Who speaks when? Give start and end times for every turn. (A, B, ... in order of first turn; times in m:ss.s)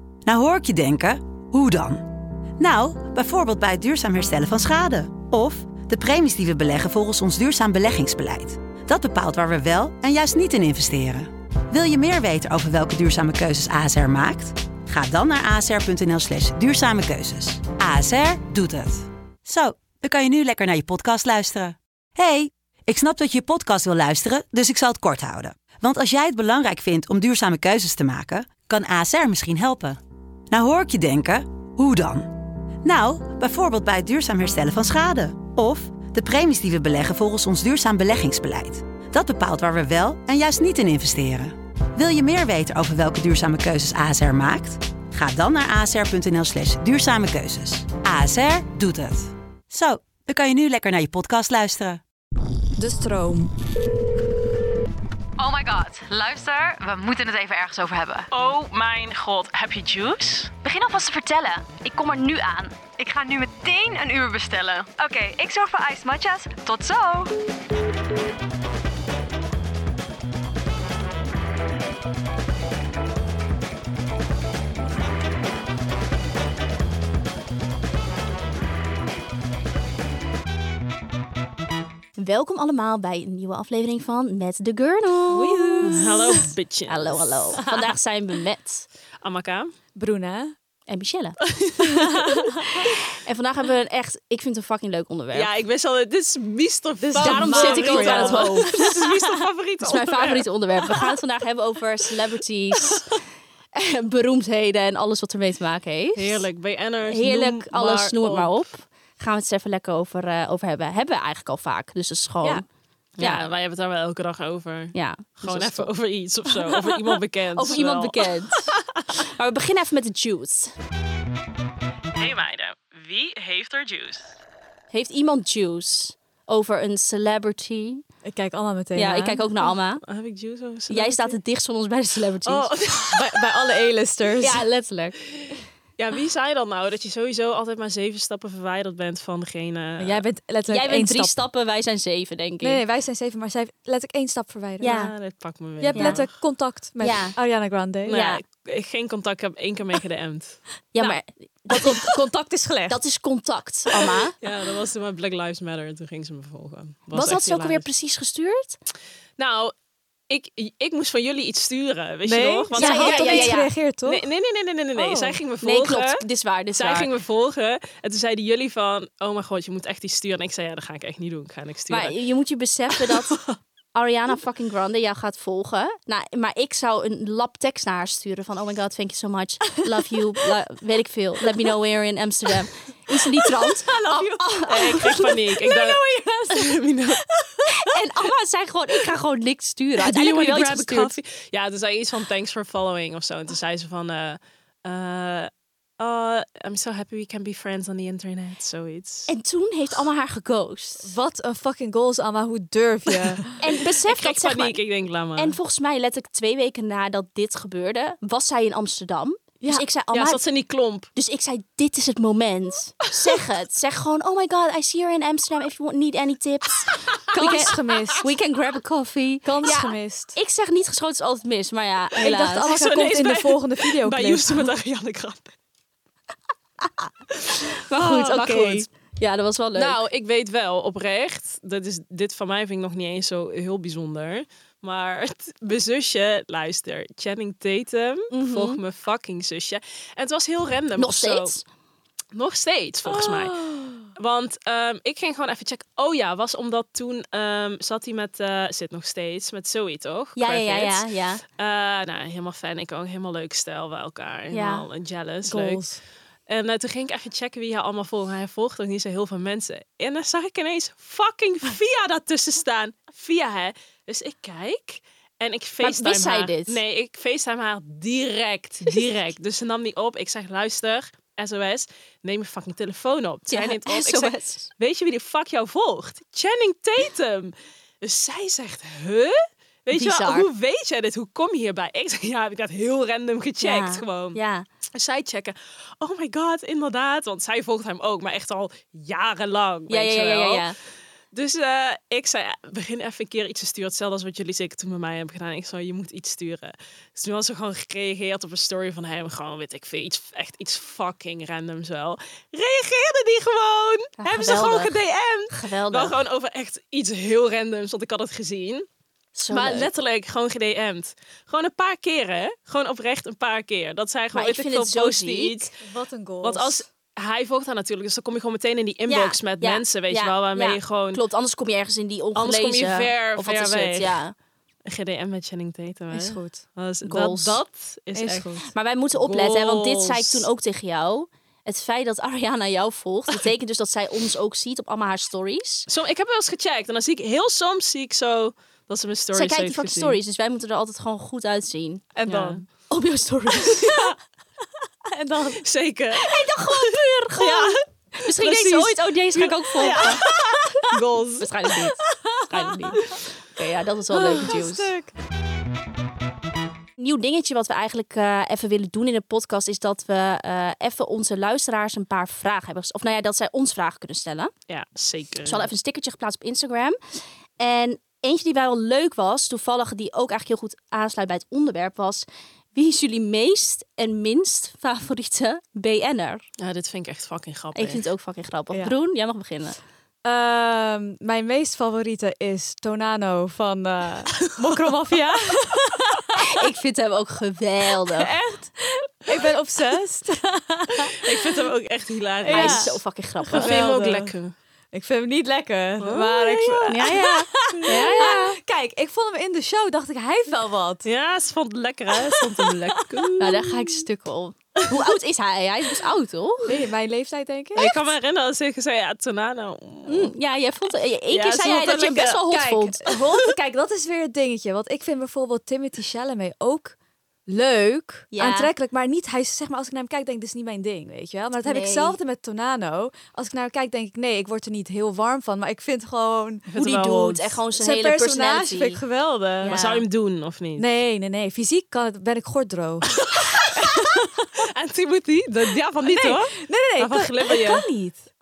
0:00.2-0:30.0 A
0:30.5-0:52.0 A
0:52.8-0:53.5 B
0:55.4-0:57.6 C
0:57.2-0:58.3 D
0:58.3-1:00.4 E
1:00.6-1:02.8 D
1:03.0-1:04.8 C
1:03.1-1:04.0 B
1:04.7-1:07.3 B
1:22.2-1:28.9 D
1:25.3-1:26.5 B
1:25.8-1:27.6 E
1:29.2-1:29.7 E
1:30.0-1:30.5 B
1:30.9-1:31.4 D
1:31.4-1:32.9 E
1:31.8-1:32.6 B
1:32.8-1:35.5 D
1:35.3-1:41.2 E
1:37.0-1:39.3 B
1:37.2-1:39.0 D
1:39.8-1:43.2 D
1:43.7-1:46.5 D
1:46.2-1:48.6 E
1:47.1-1:52.6 D
1:53.2-1:59.0 E
1:54.9-1:55.9 D
1:57.6-2:00.7 D
2:02.1-2:04.3 E
2:04.9-2:08.0 D
2:08.2-2:09.4 B
2:08.9-2:10.0 D
2:10.0-2:11.4 E
2:10.9-2:12.7 D
2:12.4-2:13.9 E
2:13.0-2:14.6 B
2:14.4-2:15.2 D
2:15.3-2:20.2 E
2:20.0-2:21.3 B
2:20.7-2:22.8 D
2:22.6-2:25.0 B
2:24.8-2:25.1 D
2:24.8-2:26.3 E
2:25.8-2:28.2 B
2:25.9-2:26.2 D
2:27.0-2:27.4 D
2:28.0-2:30.6 E
2:28.1-2:28.4 D
2:30.9-2:32.1 D
2:31.7-2:33.0 B
2:32.9-2:34.3 D
2:34.0-2:37.8 E
2:37.1-2:38.8 D
2:39.4-2:39.7 E
2:40.3-2:46.2 E
2:42.2-2:44.2 B
2:42.7-2:43.7 D
2:45.0-2:47.1 D
2:46.7-2:52.2 E
2:51.9-2:53.4 D
2:53.0-2:53.6 E
2:53.9-3:05.4 D
3:03.4-3:06.7 B
3:04.7-3:07.2 E
3:07.4-3:07.8 B
3:07.7-3:11.2 D
3:10.0-3:19.3 E
3:19.3-3:21.1 D
3:21.0-3:23.5 B
3:23.6-3:24.8 D
3:24.0-3:25.6 E
3:25.4-3:30.4 D
3:30.1-3:31.1 E
3:31.1-3:42.7 D
3:37.3-3:38.3 B
3:37.9-3:38.1 E
3:39.4-3:40.4 B
3:42.2-3:44.7 B
3:42.2-3:45.5 E
3:47.4-3:48.8 E
3:47.8-3:50.0 D
3:49.7-4:01.5 E
3:58.3-3:58.8 D
4:01.0-4:01.6 D
4:02.3-4:03.6 E
4:03.1-4:04.1 B
4:04.1-4:15.8 E
4:10.4-4:11.4 D
4:14.5-4:14.9 D
4:15.4-4:16.0 B
4:16.5-4:44.4 E
4:25.8-4:26.8 D
4:33.5-4:34.7 D
4:39.9-4:40.5 D
4:43.6-4:44.6 D
4:44.9-4:50.7 E
4:49.9-4:50.8 D
4:51.3-5:08.8 E
5:04.2-5:05.0 D
5:05.5-5:06.2 D
5:09.3-5:09.9 D
5:09.5-5:15.8 E
5:14.3-5:15.7 D
5:15.8-5:16.8 B
5:16.4-5:21.2 E
5:19.1-5:24.3 D
5:22.3-5:24.2 E
5:24.9-5:28.5 E
5:26.1-5:26.6 B
5:27.0-5:27.6 D
5:28.1-5:28.7 B
5:28.6-5:35.9 D
5:29.2-5:30.5 E
5:35.9-5:40.2 E
5:39.3-5:42.1 D
5:42.1-5:42.6 B
5:42.3-5:42.6 E
5:42.9-5:44.1 D
5:43.6-5:44.2 B
5:45.0-5:45.6 B
5:45.6-5:51.5 E
5:46.2-5:50.2 D
5:49.8-5:50.9 B
5:51.4-5:54.9 D
5:52.0-5:53.1 B
5:54.1-5:55.1 B
5:57.0-6:04.5 D
6:04.7-6:05.7 E
6:05.4-6:16.4 D
6:16.6-6:18.0 E
6:17.7-6:19.8 D
6:20.2-6:26.6 B
6:24.6-6:25.0 E
6:26.4-6:28.3 D
6:28.1-6:31.7 B
6:31.0-6:33.0 E
6:32.4-6:34.3 B
6:32.5-6:33.8 D
6:33.5-6:34.5 E
6:34.9-6:41.1 B
6:36.0-6:37.2 E
6:36.9-6:38.6 D
6:37.7-6:38.3 E
6:41.0-6:43.5 E
6:42.1-6:44.0 B
6:43.4-6:46.8 D
6:46.6-6:47.9 B
6:47.7-6:50.3 E
6:50.0-6:53.1 D
6:51.3-6:52.4 E
6:52.5-6:57.0 B
6:57.5-7:06.6 B
6:58.3-6:58.7 D
7:01.6-7:02.2 D
7:06.7-7:07.6 E
7:06.8-7:09.0 D
7:07.7-7:10.0 B
7:09.6-7:10.9 E
7:09.6-7:10.0 D
7:10.8-7:14.6 B
7:13.1-7:14.0 E
7:14.6-7:17.9 E
7:16.0-7:18.2 B